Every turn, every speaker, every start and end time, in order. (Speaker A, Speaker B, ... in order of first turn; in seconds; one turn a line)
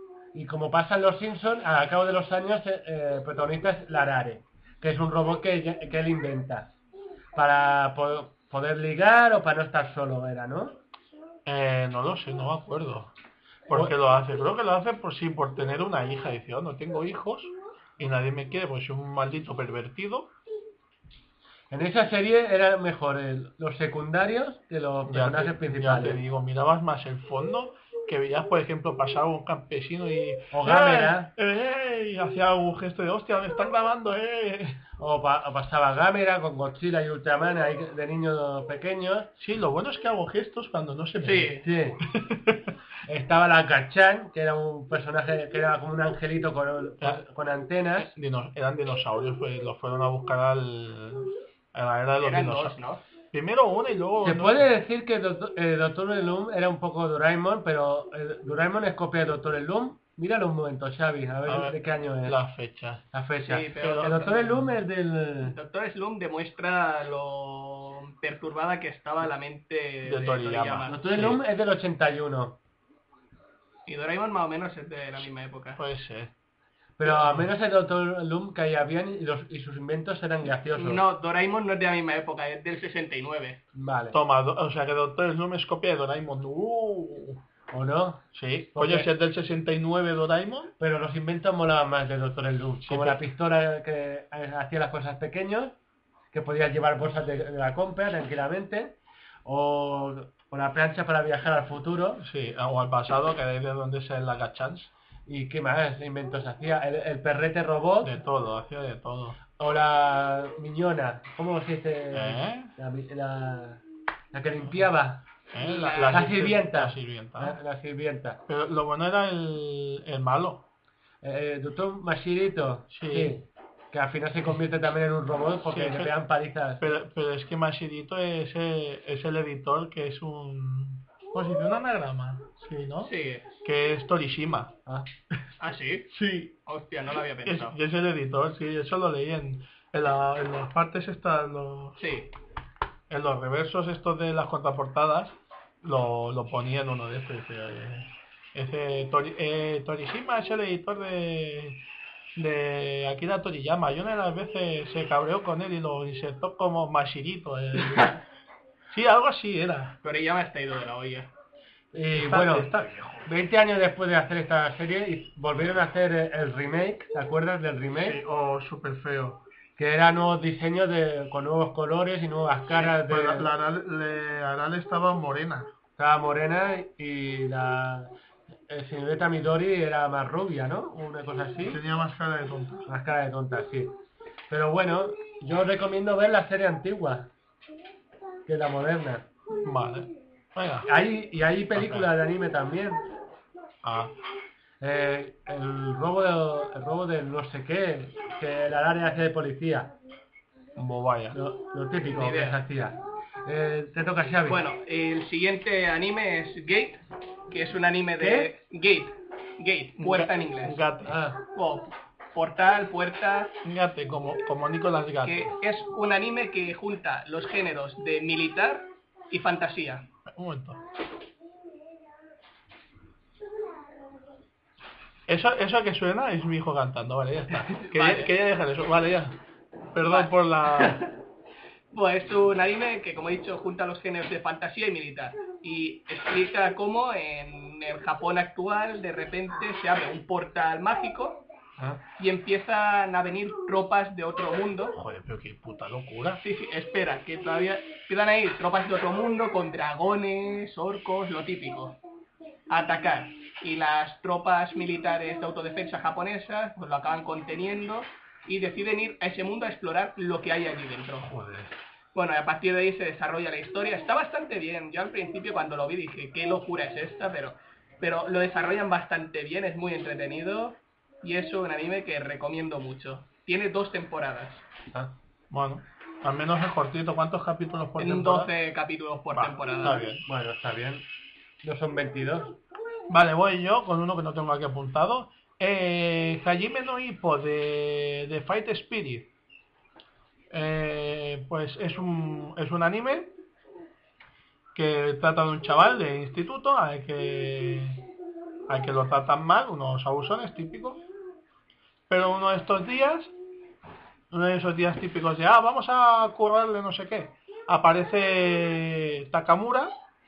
Speaker A: 0.3-6.8
Speaker A: 7.3-10.8
Speaker B: 11.4-13.1
Speaker B: 13.7-20.3
Speaker A: 21.7-26.2
Speaker B: 25.1-34.8
Speaker A: 30.5-31.3
Speaker A: 35.0-39.3
Speaker B: 39.4-42.7
Speaker C: 41.2-41.6
Speaker A: 41.6-42.0
Speaker A: 43.0-48.1
Speaker B: 48.0-52.8
Speaker C: 52.2-53.0
Speaker B: 53.3-54.7
Speaker A: 54.2-62.4
Speaker B: 61.5-63.0
Speaker A: 63.1-65.5
Speaker C: 63.4-64.5
Speaker C: 65.4-71.1
Speaker B: 70.0-71.4
Speaker A: 70.9-72.6
Speaker C: 73.9-75.8
Speaker B: 75.8-76.3
Speaker A: 77.0-81.0
Speaker B: 77.0-77.5
Speaker C: 80.7-83.6
Speaker A: 83.7-84.2
Speaker B: 84.1-87.4
Speaker A: 87.7-89.1
Speaker B: 88.3-90.7
Speaker A: 90.8-95.8
Speaker B: 92.8-93.2
Speaker A: 96.3-102.2
Speaker B: 102.2-104.9
Speaker A: 105.3-108.1
Speaker B: 108.0-109.4
Speaker A: 109.6-113.8
Speaker B: 112.1-112.7
Speaker A: 114.3-115.2
Speaker B: 115.5-117.6
Speaker C: 115.6-116.2
Speaker A: 116.1-118.4
Speaker B: 118.5-120.6
Speaker A: 121.2-126.8
Speaker B: 122.9-123.4
Speaker B: 125.7-126.1
Speaker B: 126.8-133.1
Speaker C: 133.0-133.4
Speaker B: 133.6-134.7
Speaker C: 135.6-136.1
Speaker B: 136.1-136.5
Speaker C: 136.7-137.8
Speaker B: 137.4-142.0
Speaker C: 142.0-142.3
Speaker B: 143.1-151.8
Speaker B: 152.4-158.2
Speaker B: 158.9-160.0
Speaker C: 160.0-161.3
Speaker A: 161.9-162.7
Speaker B: 162.1-163.3
Speaker A: 163.2-168.2
Speaker B: 168.0-169.4
Speaker A: 169.8-173.5
Speaker B: 172.8-175.7
Speaker A: 176.0-178.1
Speaker A: 178.7-181.8
Speaker B: 181.6-182.9
Speaker A: 182.9-183.9
Speaker A: 184.5-187.3
Speaker A: 188.5-189.3
Speaker B: 189.5-190.9
Speaker A: 190.8-193.0
Speaker B: 191.7-192.1
Speaker B: 193.8-194.1
Speaker A: 194.8-199.9
Speaker B: 200.8-201.4
Speaker A: 201.3-204.6
Speaker C: 202.1-202.6
Speaker C: 204.5-210.8
Speaker A: 208.2-208.5
Speaker B: 210.0-211.2
Speaker A: 211.1-211.4
Speaker C: 211.4-213.5
Speaker B: 213.6-215.5
Speaker C: 215.2-220.1
Speaker B: 220.2-220.8
Speaker B: 225.3-229.4
Speaker C: 227.5-228.3
Speaker B: 229.9-231.0
Speaker C: 230.0-231.1
Speaker C: 231.9-241.4
Speaker C: 242.2-244.9
Speaker B: 244.9-246.4
Speaker C: 246.4-252.0
Speaker C: 252.7-261.3
Speaker B: 261.2-261.7
Speaker C: 262.1-274.6
Speaker B: 275.5-278.5
Speaker C: 278.0-280.1
Speaker B: 279.3-280.2
Speaker A: 280.2-281.0
Speaker A: 281.6-282.6
Speaker B: 283.1-289.3
Speaker B: 290.5-293.3
Speaker B: 294.7-298.0
Speaker B: 298.7-301.0
Speaker B: 302.1-303.3
Speaker B: 304.3-309.9